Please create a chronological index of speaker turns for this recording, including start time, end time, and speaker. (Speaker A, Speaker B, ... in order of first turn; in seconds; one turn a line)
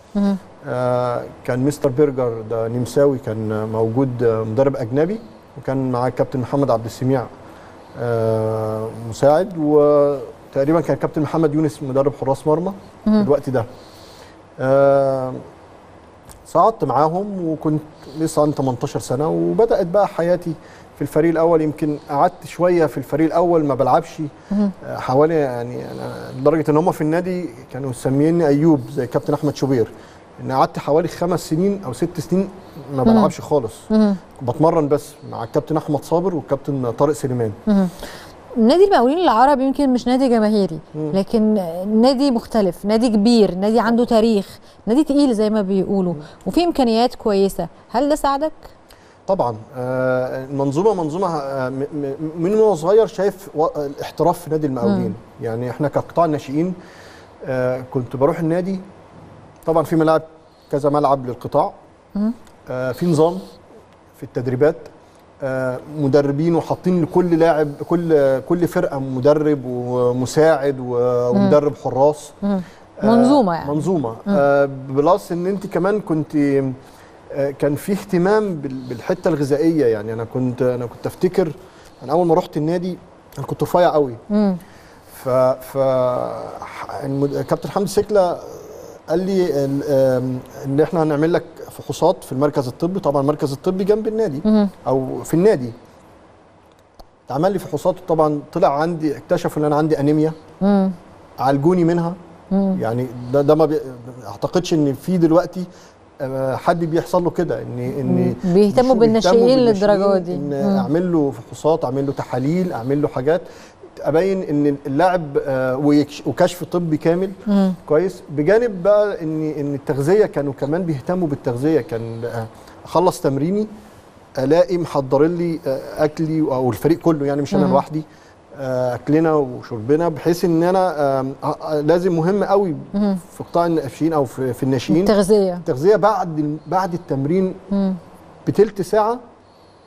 Speaker A: 0.6-7.3
Speaker A: 8.0-13.7
Speaker A: 14.6-15.4
Speaker A: 16.5-33.9
Speaker B: 33.0-33.3
Speaker B: 33.9-34.2
Speaker A: 34.4-37.6
Speaker B: 37.7-38.0
Speaker B: 38.6-48.7
Speaker A: 49.3-56.8
Speaker B: 54.8-55.1
Speaker A: 57.4-58.8
Speaker A: 59.7-61.7
Speaker A: 62.7-63.5
Speaker A: 64.2-64.9
Speaker A: 65.4-72.4
Speaker B: 71.3-71.6
Speaker B: 72.4-74.4
Speaker A: 73.0-76.8
Speaker A: 77.3-84.2
Speaker B: 84.3-84.6
Speaker A: 85.1-95.7
Speaker B: 94.5-94.7
Speaker A: 97.3-100.4
Speaker B: 100.6-101.0
Speaker A: 101.4-102.2
Speaker B: 102.5-102.8
Speaker A: 102.7-105.7
Speaker A: 106.2-113.5
Speaker B: 108.0-110.9
Speaker A: 114.0-123.7
Speaker B: 117.5-117.8
Speaker A: 124.4-135.1
Speaker B: 127.5-127.8
Speaker B: 132.9-133.2
Speaker B: 134.9-135.7
Speaker A: 135.7-137.6
Speaker B: 137.7-138.0
Speaker A: 138.5-139.2